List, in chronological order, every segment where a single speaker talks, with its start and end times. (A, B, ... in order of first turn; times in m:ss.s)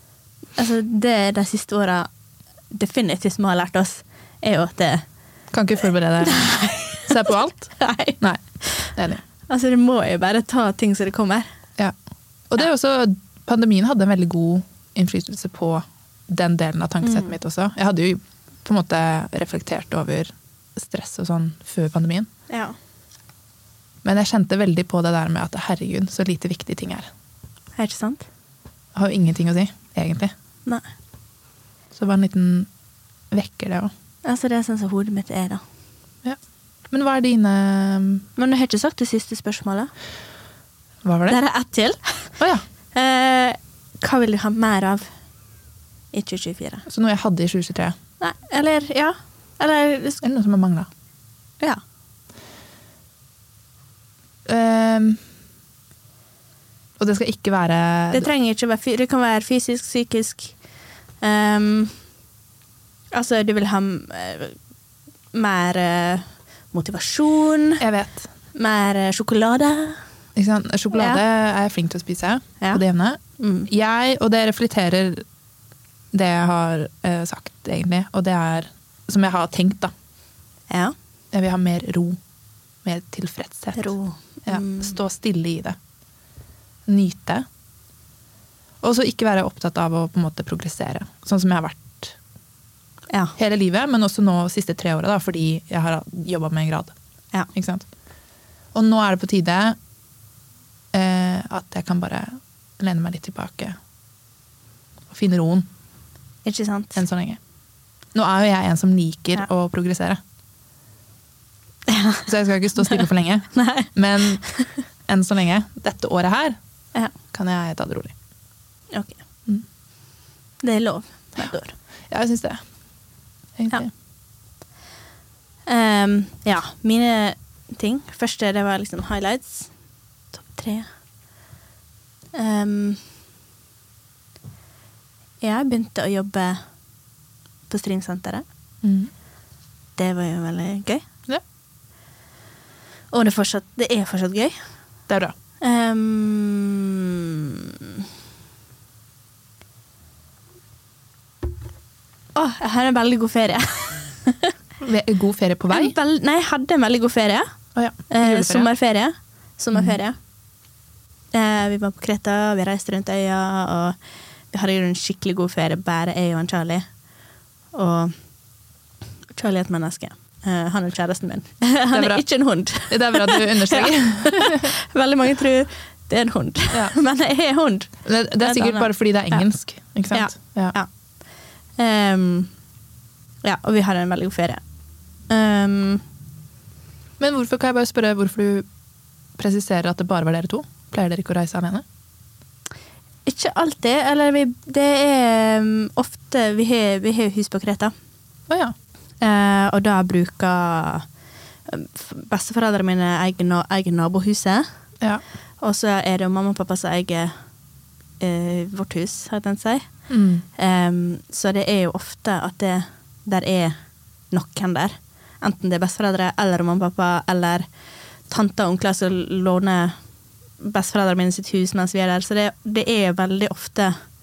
0:00.6-0:02.1 A
0:02.7-0:05.0 A
0:05.5-0:06.5 B
0:06.2-0:08.9 A
0:07.0-0:08.4 B
0:09.0-0:09.2 B
0:09.5-0:11.4 A
0:12.5-0:22.3 B
0:17.0-0:17.3 A
0:22.5-0:22.8 A
0:24.0-0:27.1 B
0:27.8-0:28.3 A
0:28.9-0:30.3 B
0:31.9-0:32.7 B
0:33.3-0:33.9 B
0:34.2-0:35.6 A
0:36.9-0:38.2 B
0:38.4-0:39.9 A
0:41.0-0:41.4 B
0:41.3-0:42.4 A
0:42.9-0:45.1 A
0:46.1-0:46.8 A
0:46.9-0:48.0 B
0:48.2-0:50.2 A
0:50.2-0:50.9 B
0:54.4-0:55.2 B
0:57.0-0:58.3 B
0:58.1-1:00.6 A
1:01.2-1:02.0 A
1:03.1-1:04.6 A
1:05.3-1:07.8 A
1:07.8-1:08.3 B
1:08.5-1:10.0 A
1:10.4-1:15.2 B
1:10.9-1:11.2 A
1:13.4-1:13.7 A
1:16.1-1:19.9 B
1:21.3-1:22.2 B
1:22.8-1:23.9 B
1:23.8-1:25.0 A
1:24.4-1:25.8 B
1:26.9-1:27.4 B
1:28.8-1:32.2 B
1:33.4-1:36.9 B
1:37.5-1:37.9 B
1:38.7-1:39.8 B
1:40.9-1:43.8 B
1:45.1-1:45.6 B
1:46.4-1:47.0 A
1:47.0-1:47.4 B
1:48.1-1:50.2 B
1:51.9-1:54.7 A
1:52.3-1:54.4 B
1:55.1-1:56.6 B
1:57.3-1:58.1 B
1:58.9-1:59.2 A
2:00.6-2:01.7 A
2:02.1-2:02.6 B
2:03.6-2:03.9 B
2:05.7-2:09.7 A
2:10.3-2:10.9 A
2:12.3-2:13.0 A
2:15.4-2:16.6 A
2:17.7-2:18.4 A
2:18.8-2:19.1 B
2:20.0-2:21.0 A
2:23.1-2:24.6 A
2:25.1-2:25.3 B
2:25.6-2:28.0 A
2:32.3-2:34.5 A
2:34.8-2:35.9 B
2:35.7-2:37.5 A
2:37.7-2:38.7 B
2:38.1-2:40.2 A
2:41.3-2:44.0 A
2:44.5-2:46.8 A
2:47.7-2:48.1 A
2:49.3-2:59.4 A
2:51.9-2:52.2 B
2:52.8-2:54.7 B
2:58.0-3:00.8 B
3:00.1-3:00.9 A
3:01.8-3:02.5 A
3:03.4-3:04.6 A
3:05.3-3:06.0 A
3:07.2-3:08.6 B
3:09.4-3:11.8 B
3:13.2-3:17.9 A
3:18.5-3:18.7 B
3:19.2-3:21.0 A
3:21.7-3:24.6 A
3:25.6-3:27.3 A
3:28.2-3:29.9 A
3:30.1-3:30.4 B
3:30.6-3:33.7 A
3:34.3-3:37.6 A
3:38.3-3:40.0 A
3:40.6-3:44.0 A